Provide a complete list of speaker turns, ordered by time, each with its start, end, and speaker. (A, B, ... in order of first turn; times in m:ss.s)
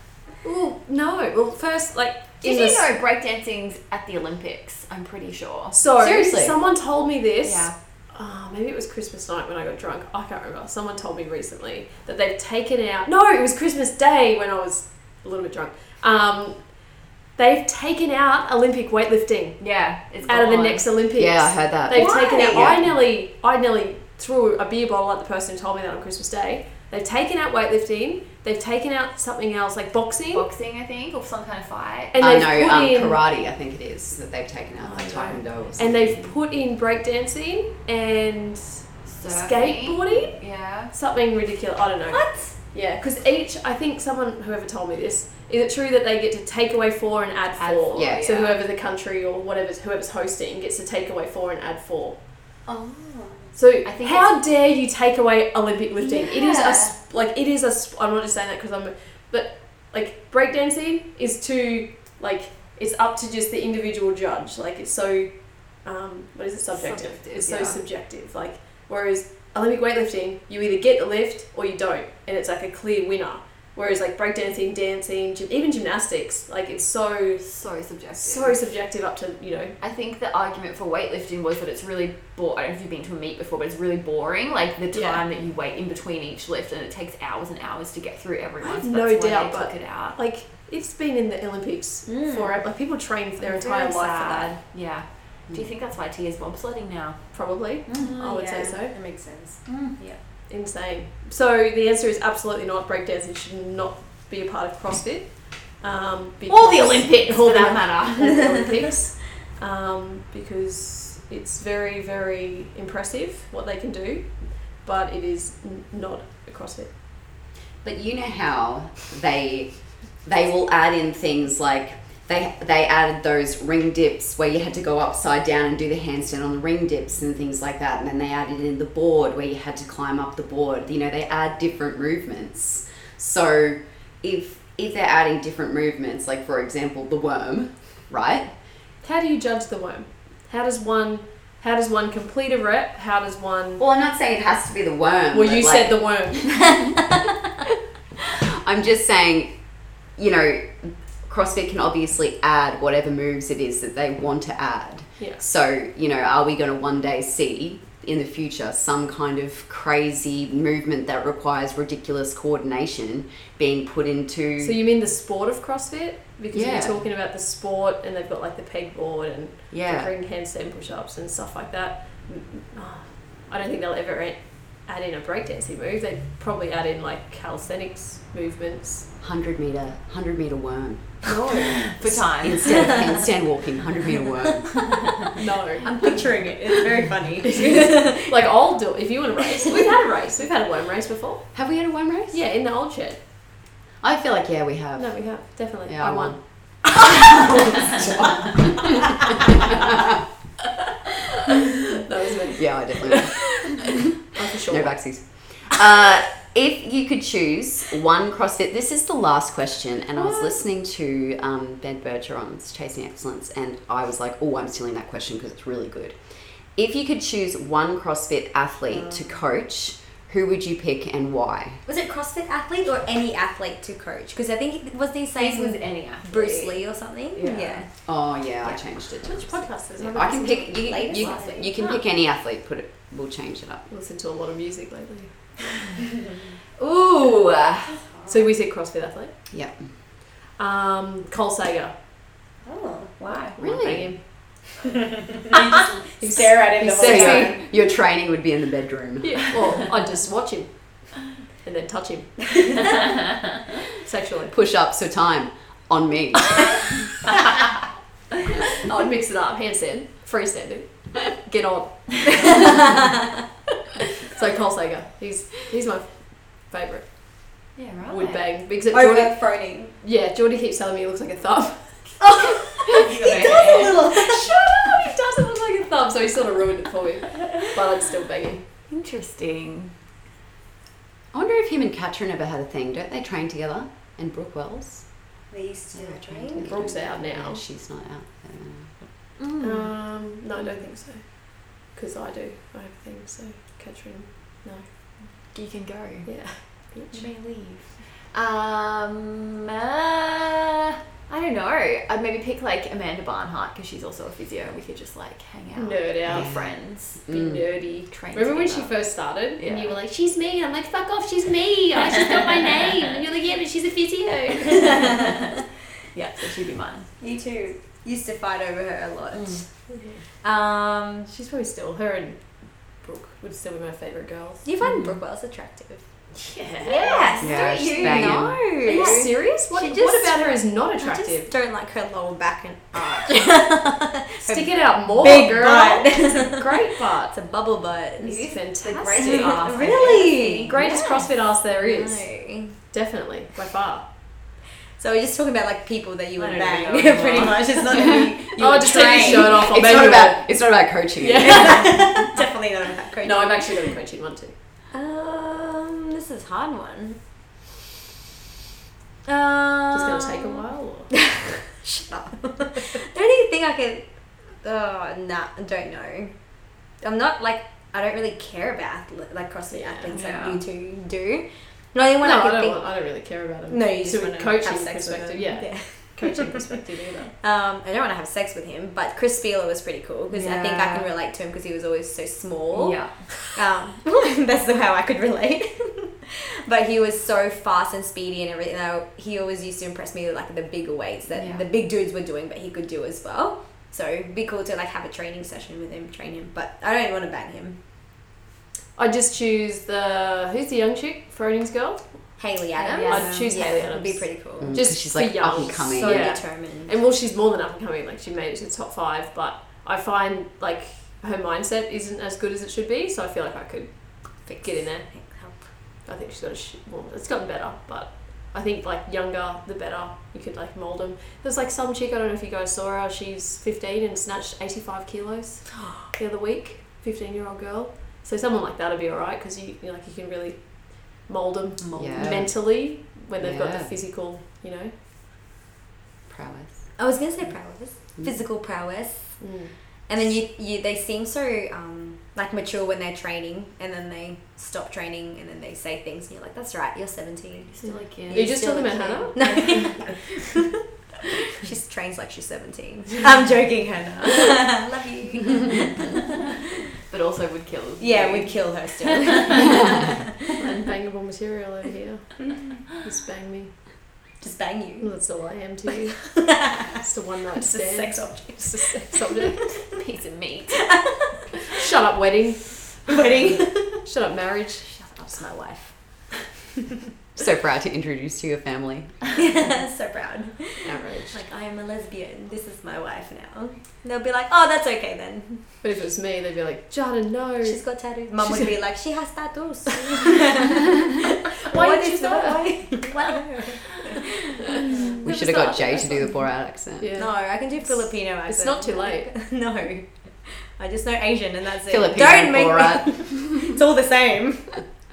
0:00.4-0:02.9 A
0:02.4-0:05.8 B
0:05.7-0:19.6 A
0:06.0-0:06.6 C
0:07.4-0:07.7 B
0:19.6-0:20.9 B
0:20.2-0:30.4 A
0:21.2-0:22.9 C
0:21.9-0:22.7 D
0:30.3-0:32.3 B
0:32.1-0:33.2 A
0:32.2-0:36.3 C
0:34.8-0:52.2 A
0:39.1-0:40.9 B
0:42.1-0:42.6 D
0:47.5-0:48.6 B
0:47.9-0:48.4 C
0:52.7-0:53.5 D
0:53.6-1:17.5 A
0:53.8-0:54.4 B
0:56.0-0:56.9 D
1:06.7-1:07.8 B
1:17.4-1:18.7 B
1:18.2-1:19.8 A
1:19.8-1:30.2 B
1:24.9-1:25.2 A
1:28.6-1:34.6 A
1:32.1-1:32.6 D
1:33.6-1:33.9 D
1:33.7-1:38.2 B
1:37.3-1:39.0 A
1:38.0-1:40.2 D
1:39.7-1:40.0 B
1:40.5-1:56.9 A
1:46.5-1:48.7 B
1:57.8-2:18.5 C
2:19.0-2:23.8 A
2:23.8-2:26.7 C
2:25.3-2:26.6 A
2:28.4-2:44.8 C
2:44.6-2:59.1 A
2:46.5-2:47.0 C
2:49.7-2:50.1 C
2:59.2-3:05.0 C
3:01.3-3:01.7 A
3:01.5-3:03.1 B
3:05.4-3:05.9 A
3:05.8-3:08.5 D
3:07.6-3:11.5 A
3:11.5-3:12.4 C
3:12.3-3:13.2 A
3:14.0-3:15.3 C
3:15.0-3:18.0 A
3:15.9-3:20.1 C
3:21.8-3:25.0 A
3:22.6-3:23.7 C
3:24.7-3:36.2 C
3:30.2-3:30.6 A
3:36.8-3:41.8 C
3:41.9-3:47.9 D
3:45.4-3:46.8 B
3:47.3-3:47.8 B
3:48.1-3:53.8 C
3:49.2-3:50.9 A
3:50.6-3:51.7 D
3:51.2-3:52.0 B
3:53.9-3:55.4 A
3:56.8-3:58.0 C
3:58.1-3:58.4 D
3:58.3-3:59.3 A
3:59.5-3:59.8 C
4:00.6-4:02.0 A
4:02.6-4:03.2 D
4:03.2-4:03.6 B
4:03.6-4:04.2 A
4:03.6-4:04.2 C
4:06.2-4:07.4 A
4:06.2-4:07.6 D
4:06.8-4:09.6 C
4:09.2-4:12.8 A
4:14.0-4:14.5 A
4:14.5-4:16.9 C
4:18.8-4:22.8 A
4:24.2-4:32.1 A
4:27.8-4:28.5 B
4:28.9-4:29.9 D
4:32.2-4:34.6 D
4:33.1-4:34.0 B
4:33.4-4:38.6 A
4:38.9-4:39.9 B
4:41.3-4:45.1 C
4:45.5-4:46.6 D
4:45.9-4:49.1 C
4:46.6-4:47.6 A
4:49.4-4:49.9 B
4:49.6-4:54.9 A
4:55.5-5:07.2 B
4:56.2-4:57.3 A
5:05.8-5:06.6 A
5:06.3-5:07.6 C
5:07.3-5:15.2 A
5:08.1-5:10.0 B
5:16.1-5:17.1 B
5:17.2-5:19.9 D
5:19.3-5:19.6 B
5:19.9-5:20.2 A
5:20.4-5:21.3 D
5:21.3-5:24.6 A
5:24.6-5:26.1 D
5:24.8-5:25.2 B
5:26.3-5:27.4 A
5:26.8-5:36.8 D
5:27.4-5:28.4 B
5:27.4-5:29.1 C
5:28.9-5:31.5 A
5:34.4-5:37.4 A
5:37.3-5:38.4 D
5:38.2-5:40.1 A
5:38.2-5:41.2 B
5:39.1-5:42.8 D
5:40.7-5:44.1 A
5:45.0-5:50.3 D
5:46.4-5:49.2 B
5:48.6-5:50.5 A
5:49.2-5:51.8 C
5:51.2-5:52.2 A
5:51.4-5:53.8 D
5:53.2-5:54.5 A
5:54.9-5:57.2 D
5:59.2-6:00.6 D
5:59.9-6:01.2 A
6:01.3-6:06.4 D
6:07.0-6:12.9 D
6:09.7-6:10.2 A
6:10.1-6:10.6 B
6:12.2-6:17.3 A
6:13.7-6:16.4 D
6:17.3-6:37.8 D
6:20.3-6:21.1 B
6:22.7-6:23.3 B
6:31.3-6:31.7 B
6:39.0-6:42.4 A
6:42.4-6:44.9 D
6:42.8-6:43.6 B
6:43.0-7:14.9 A
6:44.6-6:46.4 C
6:45.5-6:46.9 D
6:54.4-6:55.7 D
7:11.9-7:12.2 B
7:11.9-7:12.8 C
7:13.4-7:13.9 C
7:16.3-7:16.8 C
7:17.0-7:19.4 D
7:19.4-7:19.7 A
7:20.1-7:27.7 D
7:27.7-7:28.5 B
7:27.8-7:30.1 A
7:28.3-7:30.7 D
7:31.5-7:36.2 D
7:37.1-7:40.0 B
7:38.0-7:40.2 D
7:40.6-7:44.0 A
7:44.4-7:45.3 D
7:45.0-7:46.3 A
7:46.4-7:46.9 D
7:47.0-7:49.8 A
7:47.6-7:49.8 D
7:49.9-7:50.9 B
7:50.9-7:51.4 D
7:51.7-7:53.1 A
7:53.0-7:54.0 D
7:54.0-7:54.9 A
7:54.9-7:55.4 B
7:55.3-7:55.9 D
7:57.4-7:59.2 C
7:59.4-8:05.8 D
8:00.8-8:01.4 A
8:05.8-8:07.8 A
8:07.6-8:15.3 D
8:08.4-8:08.7 A
8:11.6-8:13.3 A
8:14.8-8:16.3 A
8:15.2-8:17.1 C
8:17.0-8:19.3 A
8:17.2-8:24.9 D
8:21.9-8:23.6 C